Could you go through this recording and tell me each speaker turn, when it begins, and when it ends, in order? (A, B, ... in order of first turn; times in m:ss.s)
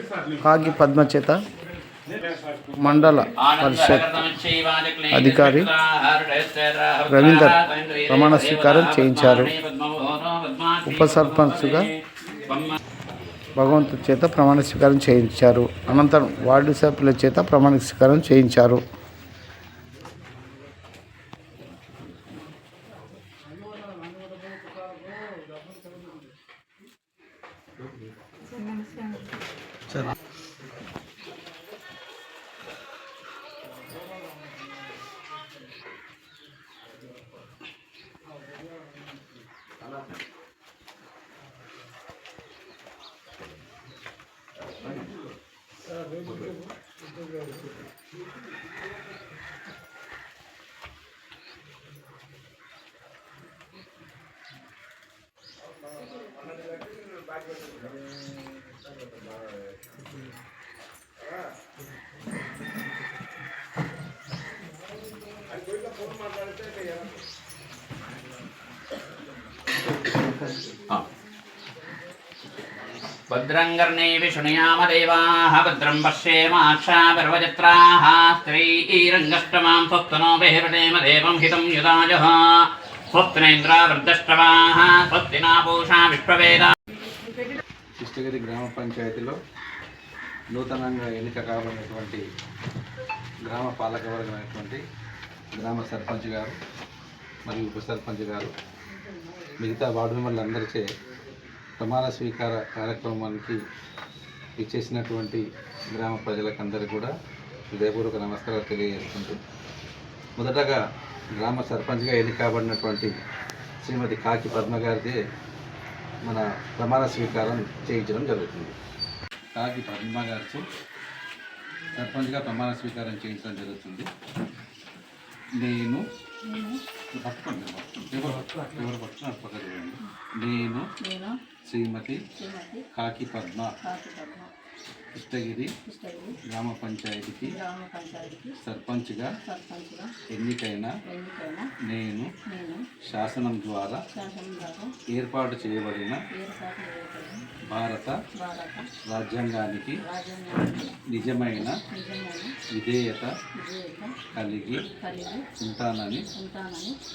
0:00.4-0:01.4 A
0:02.8-0:04.2 A
0:03.4-0:12.8 B
0:05.1-0:05.7 A
0:07.1-0:07.5 A
0:08.1-0:09.5 A
0:10.9-0:11.9 A
0:13.6-0:18.8 A
1:13.3-1:26.7 B
1:28.0-1:29.4 C
1:30.5-1:32.2 C
1:33.5-1:34.8 C
1:35.5-1:36.5 C
1:37.4-1:38.5 C
1:39.6-1:40.8 C
1:41.8-1:43.6 C
1:44.6-1:45.4 C
1:45.9-1:47.1 C
1:47.7-1:49.3 C
1:50.4-1:50.8 C
1:51.4-1:53.1 C
1:53.8-1:55.2 C
1:56.2-1:58.7 C
1:59.6-2:00.6 C
2:01.9-2:04.1 C
2:05.6-2:06.0 C
2:06.4-2:06.8 D
2:07.2-2:10.8 C
2:11.0-2:11.3 D
2:11.7-2:12.2 C
2:12.3-2:12.8 D
2:12.9-2:13.7 C
2:13.8-2:14.5 D
2:15.1-2:15.7 C
2:15.8-2:16.4 D
2:16.5-2:17.5 C
2:17.4-2:18.6 D
2:18.6-2:19.3 C
2:19.4-2:20.1 D
2:20.3-2:20.9 C
2:21.0-2:21.7 D
2:21.8-2:22.3 C
2:22.5-2:22.8 D
2:23.1-2:24.0 C
2:24.1-2:24.9 D
2:25.1-2:26.2 C
2:26.3-2:27.4 D
2:27.7-2:28.1 C
2:28.4-2:28.8 D
2:29.1-2:30.0 C
2:30.0-2:30.9 D
2:31.1-2:31.7 C
2:31.7-2:32.5 D
2:32.7-2:33.3 C
2:33.6-2:34.1 D
2:34.3-2:34.8 C
2:34.8-2:35.4 D
2:35.6-2:36.2 C
2:36.3-2:36.9 D